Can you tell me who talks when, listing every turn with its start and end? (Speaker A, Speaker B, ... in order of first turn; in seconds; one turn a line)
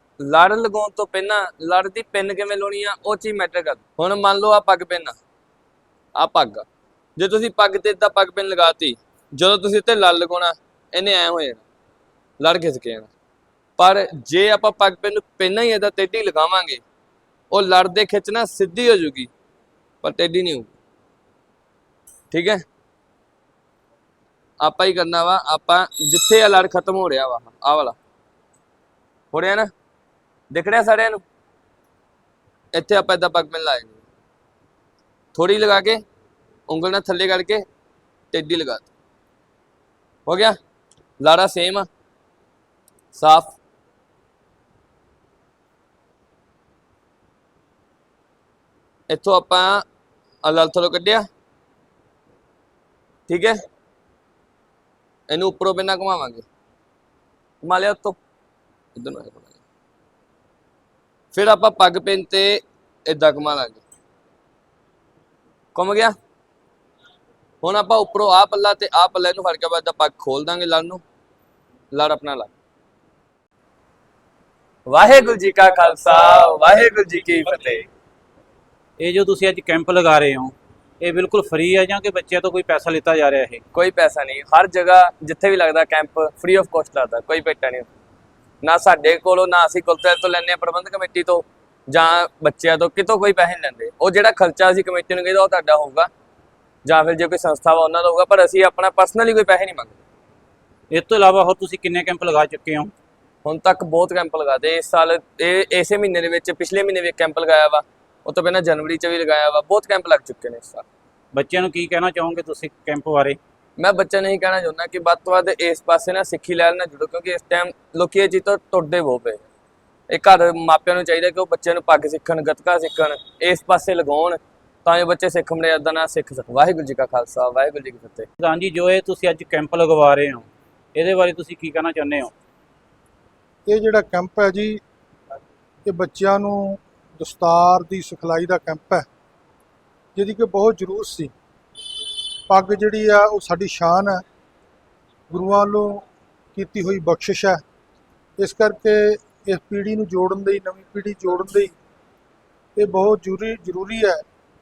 Speaker A: 0.2-5.2
Speaker A: 6.2-6.6
Speaker A: 7.2-11.6
Speaker A: 12.4-13.1
Speaker A: 13.8-16.8
Speaker A: 17.5-19.3
Speaker A: 20.0-20.7
Speaker A: 22.3-22.6
Speaker A: 24.6-27.9
Speaker A: 29.3-29.7
Speaker A: 30.5-31.2
Speaker A: 32.7-34.0
Speaker A: 35.3-36.0
Speaker A: 36.7-37.6
Speaker A: 38.3-38.9
Speaker A: 40.2-40.5
Speaker A: 41.2-41.9
Speaker A: 43.1-43.6
Speaker A: 49.1-49.8
Speaker A: 50.4-51.3
Speaker A: 53.3-53.6
Speaker A: 55.3-56.4
Speaker A: 57.6-58.2
Speaker A: 59.0-59.5
Speaker A: 61.3-63.8
Speaker A: 65.7-66.1
Speaker A: 67.6-71.0
Speaker A: 71.9-72.5
Speaker A: 74.9-77.9
Speaker B: 79.0-83.6
Speaker A: 83.7-87.9
Speaker A: 88.6-96.1
Speaker A: 96.8-100.0
Speaker B: 100.9-102.9
Speaker A: 103.4-110.8
Speaker B: 111.3-113.4
Speaker A: 113.8-119.4
Speaker A: 120.1-128.3
Speaker B: 128.4-132.3
Speaker C: 133.7-134.8
Speaker C: 135.8-139.1
Speaker C: 140.1-141.3
Speaker C: 142.5-144.2
Speaker C: 145.3-146.0
Speaker C: 146.5-147.6
Speaker C: 148.4-151.7
Speaker C: 152.8-154.2